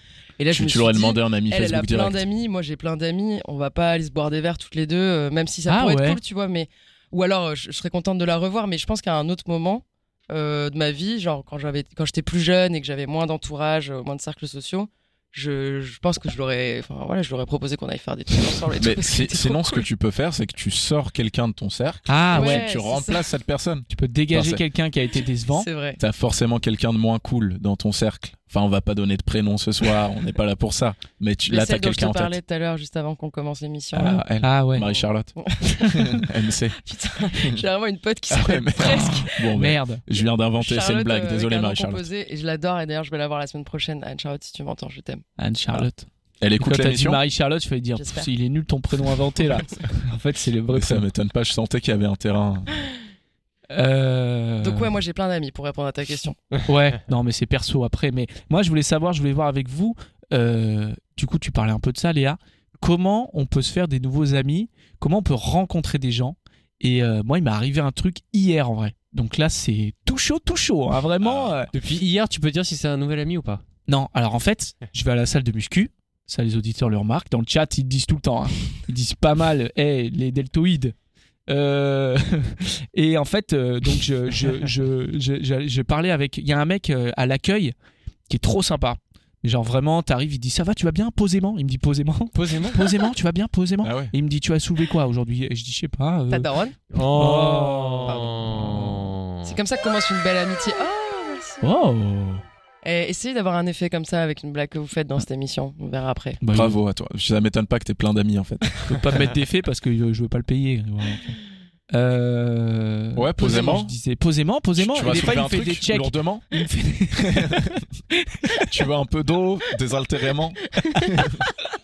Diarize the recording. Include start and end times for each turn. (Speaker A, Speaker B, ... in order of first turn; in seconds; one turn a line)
Speaker A: 0.4-19.9
Speaker B: 0.5-2.2
Speaker C: 5.7-6.2
Speaker B: 18.7-24.6
Speaker C: 22.1-22.7
Speaker A: 22.3-23.2
Speaker C: 23.9-25.7
Speaker A: 25.5-26.0
Speaker B: 26.0-32.4
Speaker A: 31.5-34.2
Speaker B: 33.9-36.8
Speaker C: 34.4-34.9
Speaker A: 35.0-36.3
Speaker A: 36.8-39.5
Speaker B: 38.3-42.0
Speaker C: 38.8-40.0
Speaker A: 40.6-45.2
Speaker C: 45.4-46.1
Speaker B: 46.4-47.2
Speaker C: 46.6-51.0
Speaker A: 48.0-48.3
Speaker B: 50.7-52.7
Speaker C: 53.7-54.9
Speaker A: 54.6-56.4
Speaker C: 56.7-71.7
Speaker B: 71.2-71.5
Speaker D: 71.7-73.6
Speaker C: 73.9-80.9
Speaker C: 81.5-87.7
Speaker C: 88.3-96.5
Speaker D: 92.3-93.0
Speaker B: 93.8-94.1
Speaker A: 96.3-96.8
Speaker D: 96.9-99.5
Speaker C: 97.0-99.1
Speaker A: 98.0-98.3
Speaker A: 99.4-101.6
Speaker C: 101.6-102.4
Speaker A: 102.8-106.4
Speaker C: 106.4-106.8
Speaker B: 106.5-109.2
Speaker C: 108.8-111.4
Speaker C: 111.9-117.6
Speaker B: 113.2-113.9
Speaker B: 114.8-116.5
Speaker B: 117.2-117.8
Speaker C: 118.2-118.6
Speaker B: 118.5-121.5